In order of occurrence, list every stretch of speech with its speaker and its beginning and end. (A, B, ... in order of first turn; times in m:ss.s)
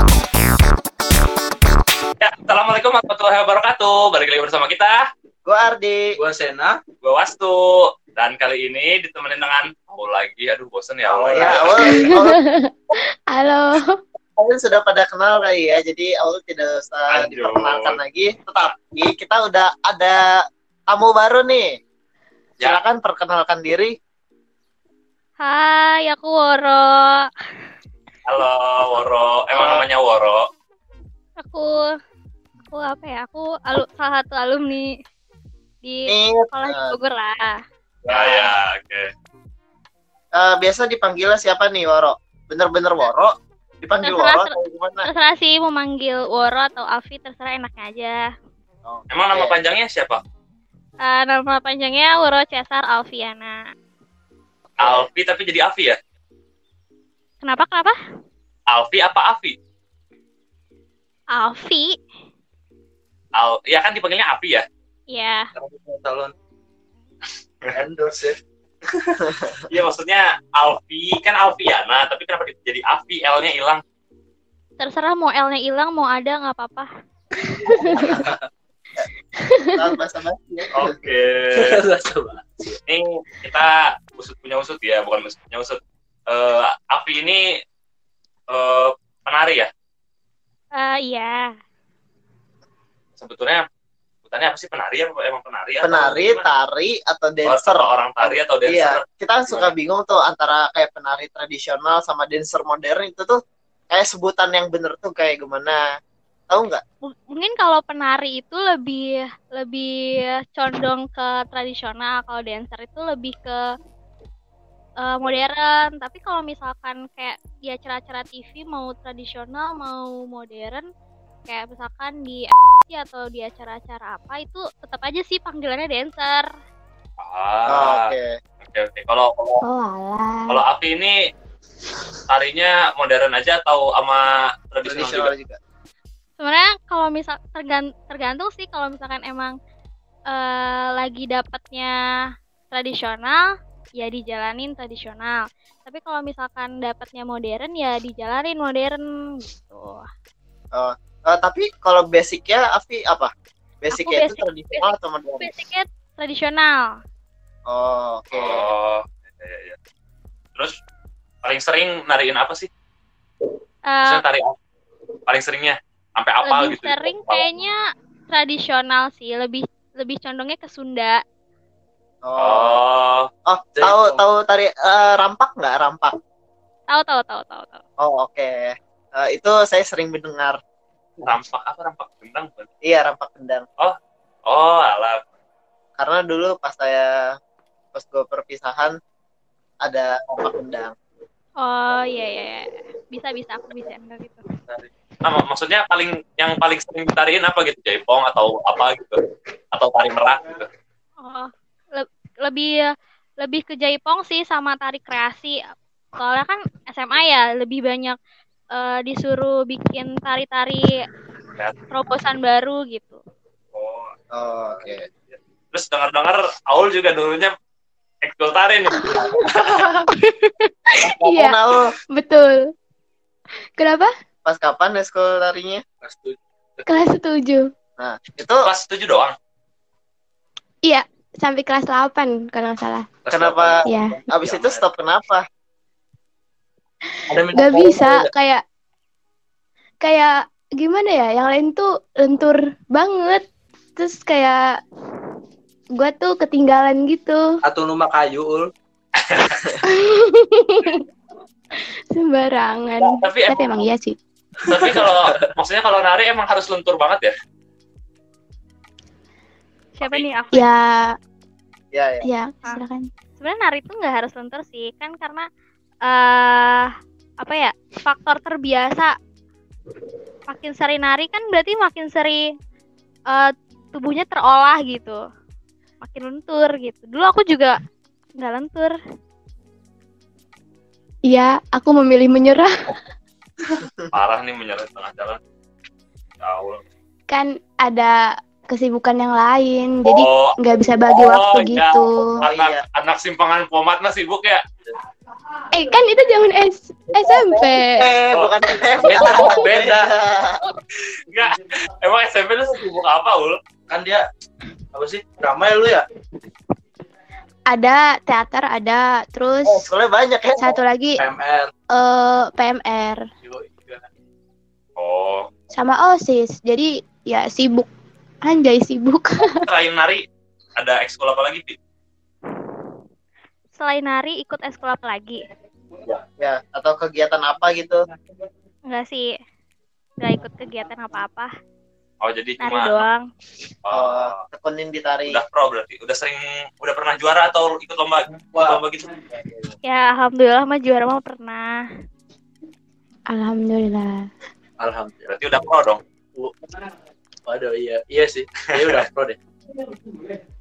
0:02.2-0:05.0 A
0:05.4-0:06.2 B
0:06.2-0:06.8 C
0:07.0-0:11.9 A
0:11.1-0:11.9 C
0:11.3-0:12.4 B
0:12.0-0:12.7 D
0:13.3-0:14.0 D
0:14.4-0:20.3 B
0:17.1-0:18.0 A
0:20.9-0:21.8 B
0:22.6-0:23.9 B
0:25.4-0:27.3 E
0:28.2-0:30.4 A
0:29.5-0:29.9 B
0:31.4-0:31.9 E
0:32.7-0:34.9 E
0:35.8-0:37.6 E
0:36.1-0:37.0 B
0:38.0-0:39.1 A
0:38.1-0:38.5 B
0:40.3-0:45.1 B
0:44.0-0:44.5 E
0:45.0-0:48.2 E
0:48.8-0:49.6 B
0:49.1-0:50.2 A
0:51.0-0:53.6 E
0:54.8-0:55.1 B
0:54.8-0:56.0 A
0:57.4-0:58.0 E
0:58.7-0:59.6 A
1:01.3-1:02.0 E
1:03.3-1:04.6 A
1:05.1-1:05.5 E
1:05.6-1:06.3 C
1:07.7-1:08.4 C
1:09.7-1:13.8 A
1:14.8-1:16.9 E
1:17.6-1:18.2 D
1:17.9-1:18.5 C
1:19.7-1:20.9 B
1:20.7-1:21.8 A
1:21.5-1:22.8 C
1:22.9-1:27.5 A
1:28.5-1:29.7 A
1:30.7-1:31.5 E
1:33.2-1:33.6 A
1:34.2-1:36.5 A
1:35.8-1:43.4 B
1:37.4-1:39.7 A
1:43.9-1:45.8 B
1:46.5-1:46.8 B
1:47.3-1:53.6 E
1:55.0-2:00.8 E
2:01.4-2:06.5 E
2:07.2-2:09.6 A
2:07.7-2:08.3 B
2:09.6-2:10.6 D
2:10.5-2:11.1 A
2:12.3-2:15.3 A
2:14.8-2:15.6 B
2:16.4-2:19.5 E
2:20.3-2:21.9 E
2:22.7-2:23.4 E
2:24.0-2:30.1 E
2:30.7-2:33.3 B
2:33.8-2:35.5 B
2:33.9-2:34.8 E
2:35.4-2:36.9 E
2:37.7-2:38.7 B
2:38.3-2:39.8 A
2:41.4-2:42.7 A
2:43.9-2:44.2 E
2:44.0-2:44.5 A
2:45.2-2:47.4 A
2:46.4-2:47.8 E
2:48.3-2:51.2 E
2:52.2-2:52.8 B
2:52.4-2:53.3 A
2:53.4-2:56.2 B
2:53.8-2:54.2 C
2:56.9-2:57.8 E
2:58.0-3:00.6 B
3:01.2-3:02.7 A
3:02.8-3:03.6 B
3:03.8-3:05.2 A
3:06.0-3:07.1 B
3:07.9-3:08.9 B
3:09.8-3:10.9 B
3:11.6-3:14.5 E
3:15.2-3:19.2 A
3:19.7-3:20.7 A
3:21.2-3:25.6 E
3:26.2-3:28.2 E
3:28.7-3:30.9 E
3:31.9-3:33.2 E
3:33.7-3:34.1 A
3:34.3-3:35.0 B
3:34.7-3:37.5 A
3:38.2-3:39.8 A
3:39.0-3:39.4 D
3:40.2-3:41.6 D
3:41.0-3:41.9 B
3:42.1-3:42.7 D
3:43.8-3:44.1 D
3:44.4-3:45.8 B
3:46.0-3:47.1 C
3:46.9-3:47.7 D
3:48.0-3:48.7 B
3:48.6-3:49.3 A
3:50.8-3:53.0 D
3:53.2-3:54.9 C
3:53.3-3:55.4 B
3:53.8-3:54.1 D
3:57.3-3:58.3 C
3:57.3-3:58.6 D
4:00.0-4:03.4 D
4:04.0-4:04.6 D
4:06.0-4:07.4 D
4:07.6-4:08.7 C
4:09.2-4:09.8 A
4:09.8-4:11.0 D
4:12.1-4:14.1 D
4:13.0-4:13.8 A
4:14.6-4:15.5 C
4:14.7-4:17.3 A
4:20.0-4:20.7 E
4:20.0-4:20.3 A
4:20.5-4:21.2 D
4:21.9-4:22.2 B
4:22.2-4:23.1 D
4:23.4-4:25.4 E
4:26.0-4:29.1 E
4:30.5-4:32.5 E
4:33.3-4:35.2 E
4:36.0-4:37.7 E
4:38.4-4:39.0 E
4:41.3-4:42.7 D
4:43.8-4:44.1 B
4:44.1-4:45.4 A
4:46.4-4:46.8 A
4:47.3-4:48.1 D
4:48.7-4:52.4 D
4:50.0-4:54.6 A
4:52.4-4:52.8 B
4:55.7-4:58.1 D
4:57.1-5:00.6 B
4:58.3-5:00.0 A
4:59.0-5:00.1 C
5:01.3-5:03.6 A
5:03.9-5:04.2 C
5:04.9-5:06.0 C
5:07.7-5:09.9 D
5:09.6-5:10.8 B
5:10.5-5:11.2 D
5:11.2-5:11.7 C
5:11.9-5:13.2 D
5:13.4-5:14.0 C
5:15.0-5:15.5 A
5:15.7-5:17.9 D
5:18.4-5:19.6 D
5:19.5-5:20.2 A
5:20.8-5:21.8 A
5:23.8-5:25.4 E
5:26.4-5:28.0 B
5:28.9-5:29.3 E
5:30.2-5:31.5 E
5:32.2-5:33.1 A
5:32.6-5:33.2 E
5:33.8-5:34.4 A
5:33.9-5:35.4 B
5:35.3-5:39.2 A
5:38.5-5:38.8 C
5:39.8-5:41.8 E
5:43.3-5:44.2 D
5:44.8-5:45.4 C
5:45.3-5:46.0 A
5:47.4-5:49.4 C